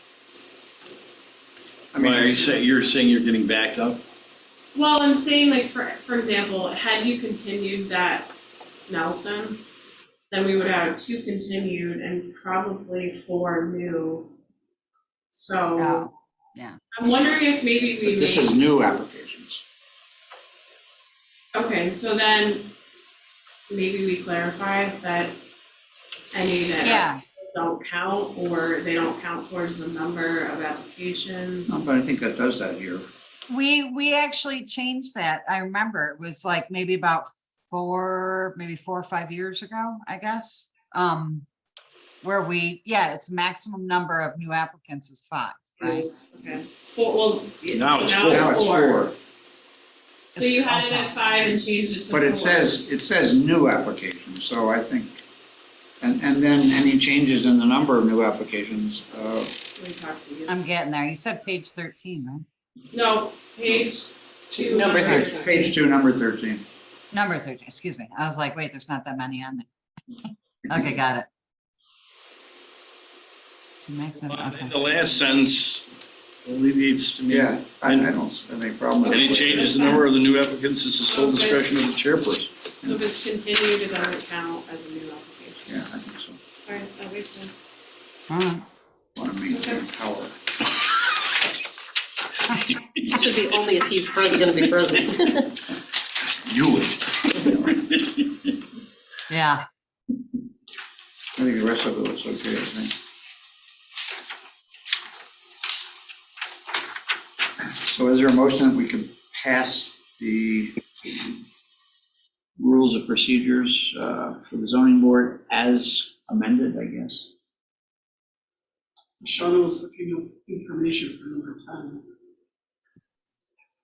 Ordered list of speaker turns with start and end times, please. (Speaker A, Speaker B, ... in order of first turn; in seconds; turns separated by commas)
Speaker A: 1.9-2.6, Speaker B: 2.0-4.0, Speaker C: 4.8-8.3, Speaker C: 8.9-9.6, Speaker C: 10.3-14.3, Speaker C: 15.3-16.1, Speaker D: 15.8-16.8, Speaker C: 16.9-18.5, Speaker A: 18.0-19.6, Speaker C: 21.5-22.7, Speaker C: 23.7-25.4, Speaker C: 26.3-31.8, Speaker D: 26.8-27.2, Speaker A: 31.7-33.1, Speaker D: 33.5-41.5, Speaker D: 42.2-46.1, Speaker C: 45.8-49.1, Speaker B: 47.7-48.6, Speaker A: 48.3-49.2, Speaker C: 50.3-52.8, Speaker D: 50.4-51.1, Speaker A: 52.1-55.2, Speaker A: 56.0-59.5, Speaker C: 59.8-60.5, Speaker D: 60.5-62.5, Speaker C: 62.9-65.6, Speaker E: 64.5-65.6, Speaker A: 65.0-66.7, Speaker D: 67.1-69.7, Speaker D: 70.7-71.3, Speaker D: 73.8-74.8, Speaker B: 74.3-75.8, Speaker B: 76.4-78.1, Speaker A: 77.3-79.8, Speaker C: 79.0-80.1, Speaker B: 79.1-82.5, Speaker C: 81.0-81.7, Speaker C: 82.8-85.7, Speaker A: 85.7-86.4, Speaker C: 86.7-87.6, Speaker D: 88.3-88.6, Speaker A: 89.2-90.4, Speaker C: 89.5-89.8, Speaker E: 93.1-95.6, Speaker B: 96.5-97.9, Speaker D: 99.3-99.6, Speaker A: 101.4-103.0, Speaker A: 107.6-111.4, Speaker A: 112.6-117.3, Speaker F: 119.2-122.0